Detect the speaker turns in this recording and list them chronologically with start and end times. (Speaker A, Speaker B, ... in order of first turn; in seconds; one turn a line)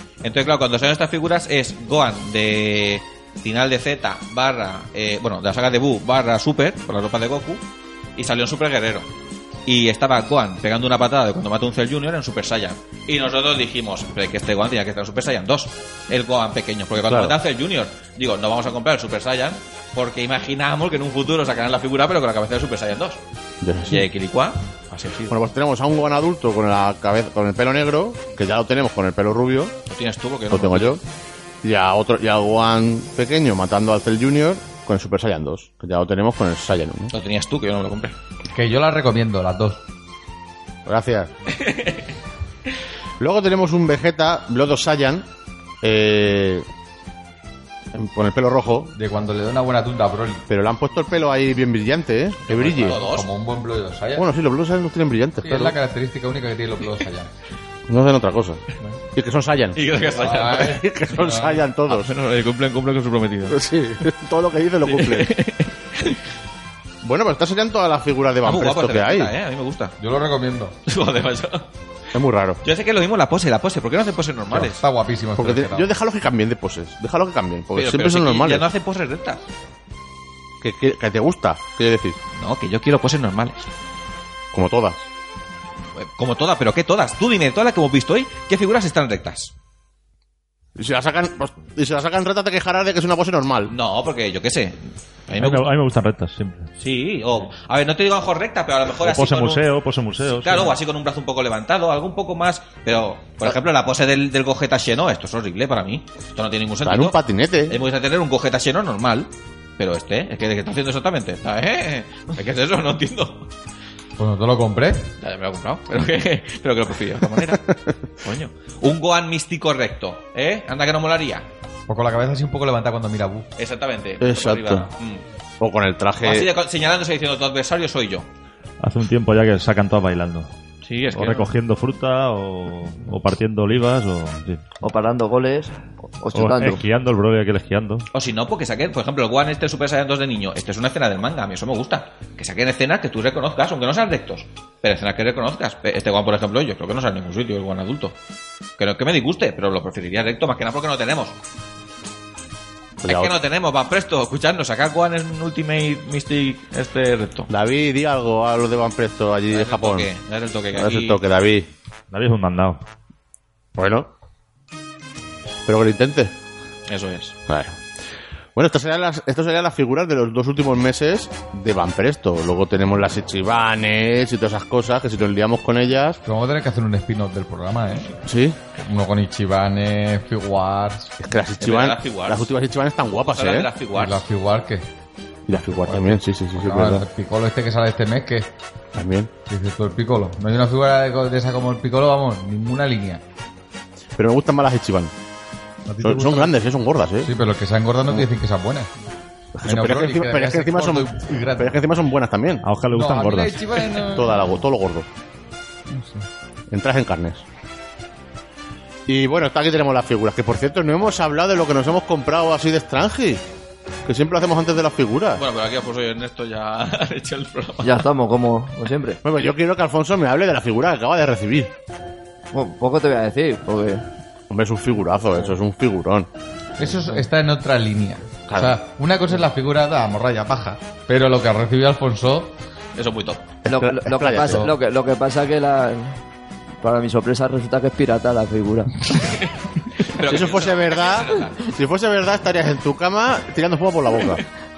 Speaker A: 0.2-7.6
Speaker A: 8.2-9.1
Speaker A: 9.7-23.2
Speaker B: 17.0-17.4
Speaker B: 23.6-24.0
Speaker A: 23.9-25.4
Speaker B: 25.3-29.7
Speaker A: 29.9-31.0
Speaker B: 30.5-31.0
Speaker B: 31.6-37.1
Speaker A: 37.1-38.1
Speaker C: 38.5-39.8
Speaker B: 40.9-41.3
Speaker A: 41.6-42.0
Speaker B: 43.2-45.2
Speaker B: 45.8-46.6
Speaker B: 47.9-48.9
Speaker C: 48.9-50.4
Speaker B: 50.5-53.0
Speaker A: 52.4-53.3
Speaker C: 52.8-54.3
Speaker B: 54.1-55.7
Speaker C: 55.4-57.3
Speaker B: 57.9-58.6
Speaker B: 59.1-59.8
Speaker A: 59.7-60.8
Speaker C: 60.1-61.6
Speaker B: 60.6-62.1
Speaker A: 61.9-63.6
Speaker B: 63.5-65.4
Speaker A: 64.8-66.2
Speaker B: 67.0-69.3
Speaker A: 68.4-70.0
Speaker C: 70.0-70.8
Speaker A: 70.8-71.7
Speaker B: 72.1-72.6
Speaker A: 72.6-74.8
Speaker C: 74.5-75.9
Speaker B: 75.4-78.7
Speaker A: 77.7-79.5
Speaker B: 80.6-82.2
Speaker A: 82.3-83.6
Speaker B: 84.5-85.0
Speaker A: 85.9-89.5
Speaker B: 90.8-93.7
Speaker A: 93.7-95.7
Speaker D: 95.4-96.7
Speaker A: 96.8-99.7
Speaker D: 99.0-100.7
Speaker A: 100.3-113.5
Speaker B: 106.8-107.8
Speaker C: 114.2-115.1
Speaker A: 115.2-121.5
Speaker C: 121.9-123.5
Speaker A: 123.6-125.2
Speaker B: 124.2-124.9
Speaker B: 125.6-126.5
Speaker A: 126.2-128.3
Speaker D: 128.8-130.5
Speaker A: 130.8-131.5
Speaker D: 131.1-134.6
Speaker E: 134.8-136.8
Speaker D: 136.3-138.1
Speaker A: 138.1-148.2
Speaker A: 148.8-151.4
Speaker B: 153.0-153.3
Speaker A: 153.0-157.5
Speaker B: 157.5-160.1
Speaker A: 159.5-161.2
Speaker B: 160.8-161.7
Speaker D: 162.1-162.8
Speaker B: 163.8-164.1
Speaker B: 165.7-166.3
Speaker A: 166.9-167.3
Speaker B: 167.5-167.8
Speaker B: 168.5-176.2
Speaker C: 176.2-178.1
Speaker B: 178.2-178.6
Speaker C: 178.7-181.1
Speaker B: 181.2-183.7
Speaker A: 181.6-182.5
Speaker A: 183.3-184.2
Speaker C: 183.9-184.9
Speaker B: 185.5-187.0
Speaker C: 185.5-188.5
Speaker B: 188.9-189.3
Speaker C: 189.5-193.2
Speaker B: 194.2-195.1
Speaker C: 195.9-196.7
Speaker B: 196.0-197.3
Speaker C: 197.2-198.9
Speaker B: 199.5-202.7
Speaker C: 199.6-201.8
Speaker D: 202.6-203.6
Speaker C: 202.9-204.6
Speaker B: 204.0-205.1
Speaker C: 205.9-206.3
Speaker B: 206.7-207.4
Speaker B: 209.1-213.4
Speaker B: 214.1-215.4
Speaker A: 215.3-218.0
Speaker E: 217.8-219.2
Speaker B: 219.2-221.7
Speaker E: 222.5-224.1
Speaker B: 224.5-226.3
Speaker C: 226.8-232.6
Speaker B: 228.5-228.8
Speaker A: 232.9-233.4
Speaker B: 233.6-234.7
Speaker E: 233.7-236.2
Speaker C: 234.3-234.7
Speaker E: 236.8-239.1
Speaker A: 239.2-241.7
Speaker B: 240.2-244.4